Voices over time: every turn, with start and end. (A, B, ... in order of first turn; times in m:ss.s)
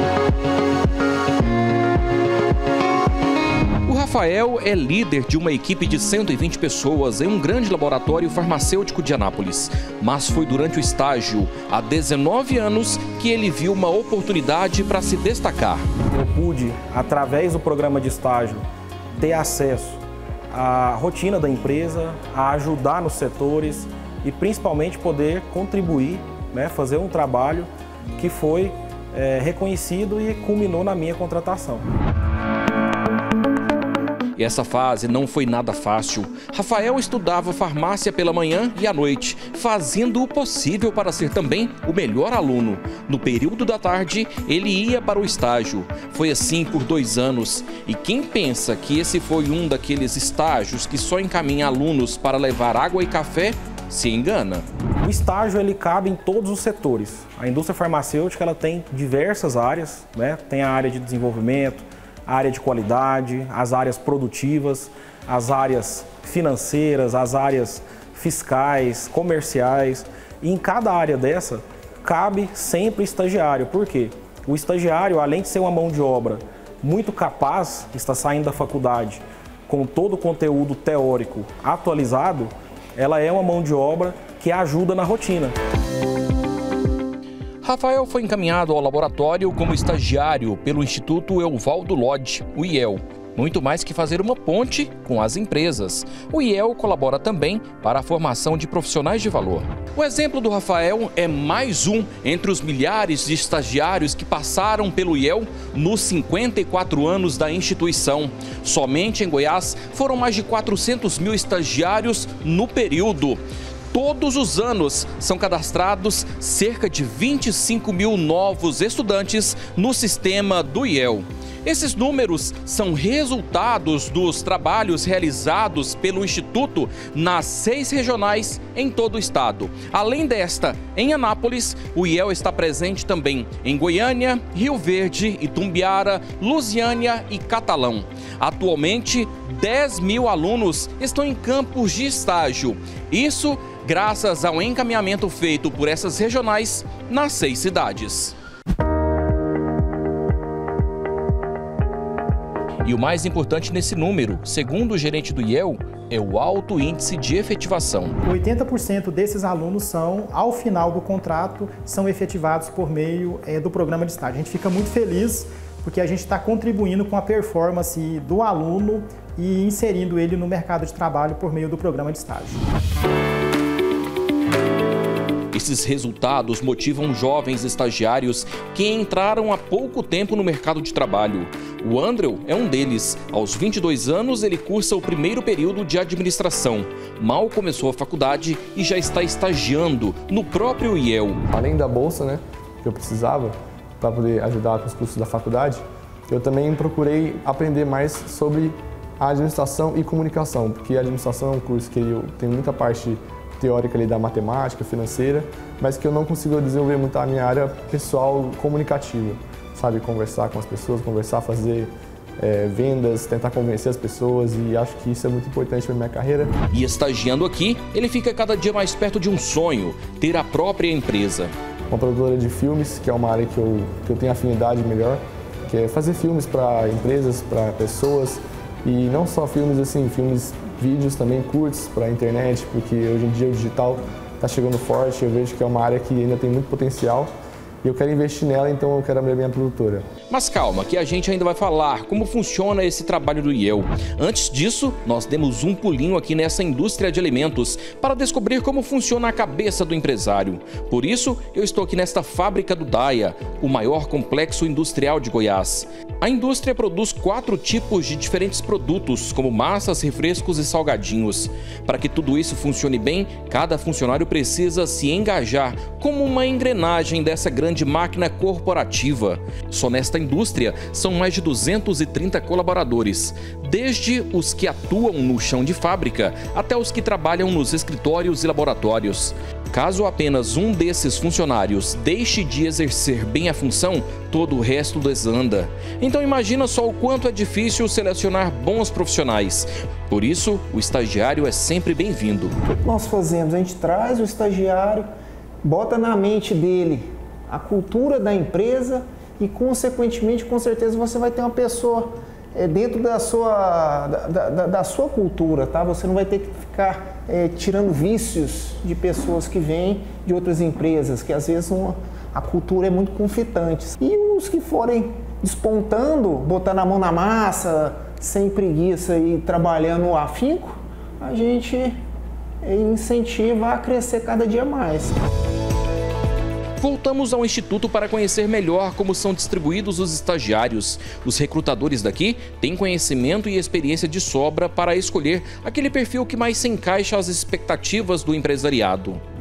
0:03.8-0:15.8 A
0:16.1-0:18.6 B
0:19.2-0:31.8 B
0:34.4-0:54.6 A
0:55.0-1:25.6 B
1:27.6-1:53.4 A
1:53.9-2:28.3 A
2:32.8-2:38.2 A
2:38.2-2:52.6 C
2:55.5-3:11.4 A
3:11.5-3:36.5 D
3:36.7-3:41.5 A
3:41.9-3:57.3 D
3:57.8-4:00.0 D
4:00.3-4:52.6 A
4:52.6-4:55.1 E
4:55.6-5:22.0 E
5:22.6-5:25.2 E
5:26.8-5:39.2 A